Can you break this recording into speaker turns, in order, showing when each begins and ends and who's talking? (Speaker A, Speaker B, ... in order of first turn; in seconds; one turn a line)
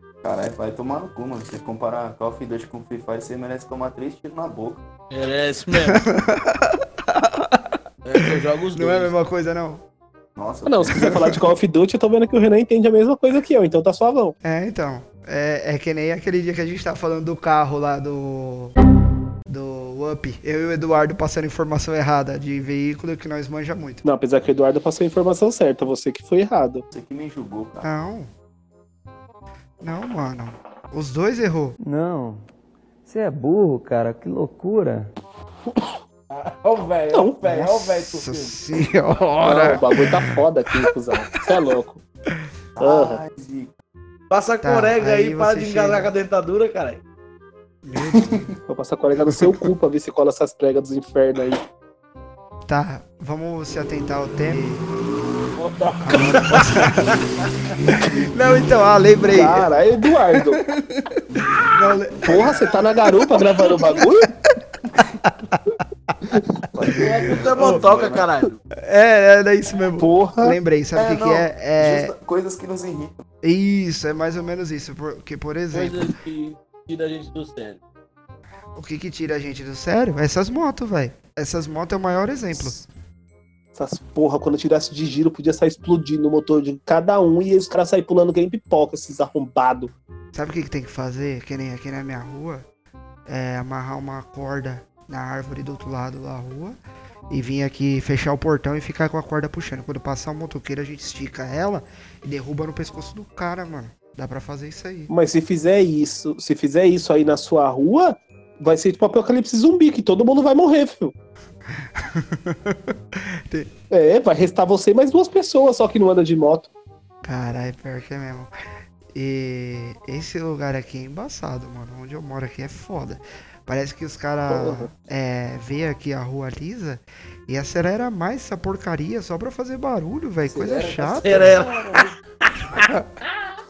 Speaker A: 0.2-4.8
Speaker B: 5.1-6.0
Speaker C: 5.8-9.8
Speaker B: 8.0-9.1
Speaker A: 10.4-11.3
Speaker D: 10.6-14.4
Speaker C: 10.9-11.2
Speaker C: 14.4-18.8
Speaker C: 19.5-24.0
Speaker D: 24.0-26.9
Speaker A: 26.9-27.9
Speaker C: 27.8-28.3
Speaker C: 29.8-31.8
Speaker E: 31.8-32.4
Speaker E: 33.1-35.1
Speaker B: 36.3-38.6
Speaker D: 37.1-37.7
Speaker C: 37.5-40.2
Speaker D: 39.4-42.0
Speaker A: 42.8-43.7
Speaker D: 42.8-43.2
Speaker B: 44.3-47.0
Speaker C: 44.6-46.1
Speaker C: 47.8-48.5
Speaker D: 48.7-51.6
Speaker C: 49.3-49.6
Speaker C: 52.7-54.9
Speaker B: 55.6-56.9
Speaker C: 56.0-57.2
Speaker B: 57.4-57.7
Speaker C: 57.9-59.7
Speaker D: 59.3-60.6
Speaker C: 60.3-64.0
Speaker A: 61.3-62.2
Speaker D: 62.2-64.3
Speaker C: 65.0-66.1
Speaker D: 66.2-66.9
Speaker A: 66.7-68.2
Speaker B: 67.0-68.6
Speaker C: 67.5-67.9
Speaker C: 68.8-72.1
Speaker D: 70.0-70.6
Speaker A: 70.9-73.2
Speaker C: 73.4-76.1
Speaker B: 75.7-77.8
Speaker C: 78.8-82.8
Speaker D: 83.8-89.9
Speaker C: 90.3-92.6
Speaker C: 93.3-96.8
Speaker C: 97.3-105.1
Speaker D: 105.1-111.1
Speaker C: 111.8-113.7
Speaker D: 113.9-116.7
Speaker C: 117.2-118.5
Speaker C: 119.1-131.6
Speaker D: 124.5-124.9
Speaker A: 130.5-132.2
Speaker B: 131.0-132.9
Speaker C: 132.7-133.1